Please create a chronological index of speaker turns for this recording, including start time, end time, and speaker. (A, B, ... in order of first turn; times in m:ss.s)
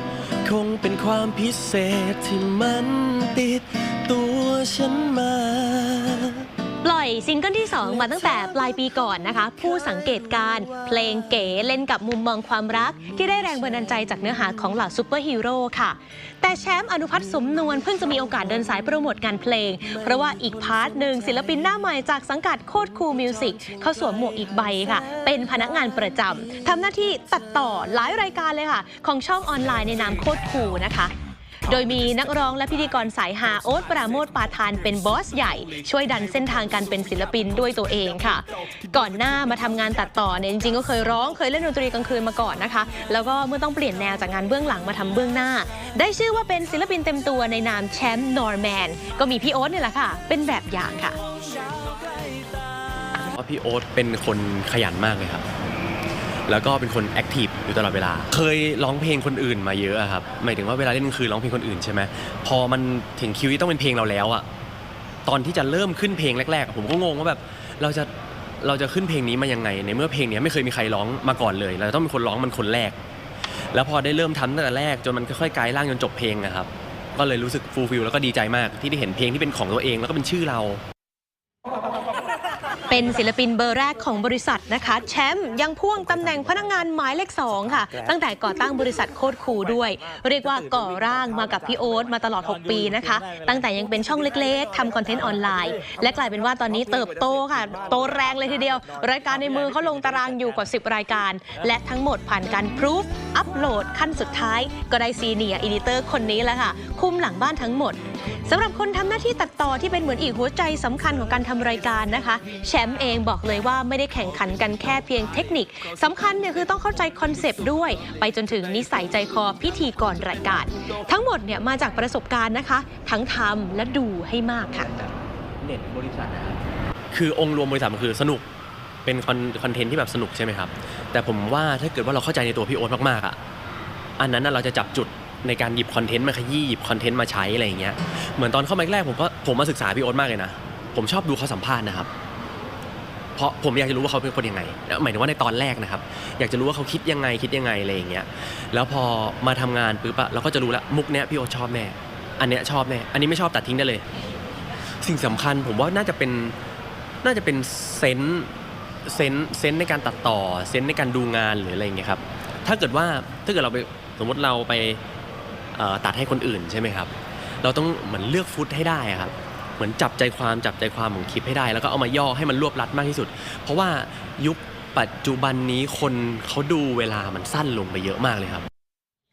0:00.4-0:06.5 A
0:06.8-0:31.1 B
0:08.0-0:08.4 A
0:09.6-0:11.4 A
0:20.0-0:21.6 A
0:23.5-0:26.2 A
0:31.7-0:51.2 B
0:53.1-0:55.4 A
0:56.5-1:04.4 A
1:05.2-1:08.1 A
1:08.6-1:13.0 A
1:13.7-1:20.8 A
1:22.9-2:04.9 B
2:05.6-2:06.6 A
2:07.1-2:08.4 A
2:09.0-2:13.4 A
2:14.2-2:22.1 A
2:23.4-2:34.0 A
2:35.0-2:36.6 A
2:37.2-2:38.5 A
2:39.0-2:45.0 A
2:45.8-2:58.7 A